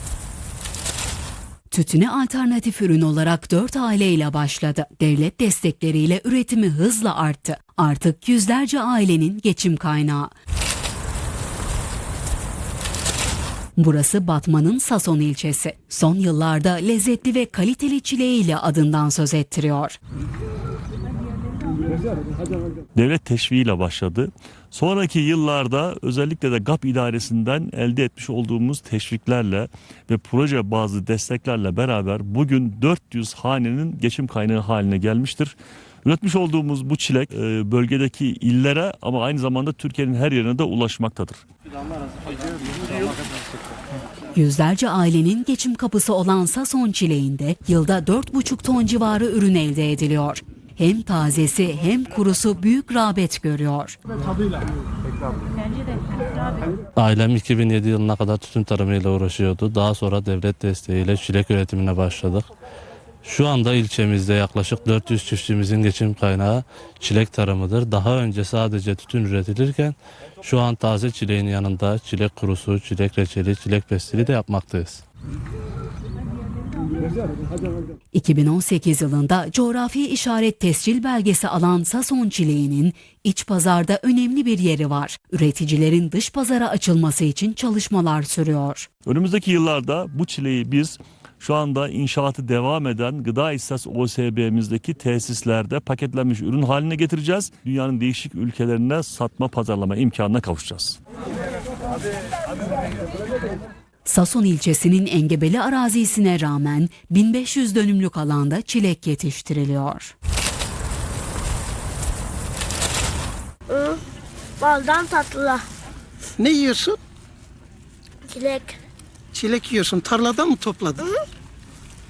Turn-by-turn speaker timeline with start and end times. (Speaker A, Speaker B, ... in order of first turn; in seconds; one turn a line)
Speaker A: 1.7-10.3
Speaker A: 13.8-20.0
Speaker B: 22.9-41.4
Speaker A: 44.3-54.0
Speaker C: 57.0-62.5
Speaker C: 63.2-75.0
Speaker A: 78.1-88.9
Speaker B: 89.0-101.0
Speaker A: 104.0-110.1
Speaker D: 113.7-114.0
Speaker D: 114.6-115.6
Speaker E: 116.4-117.0
Speaker D: 118.3-118.8
Speaker E: 119.3-121.0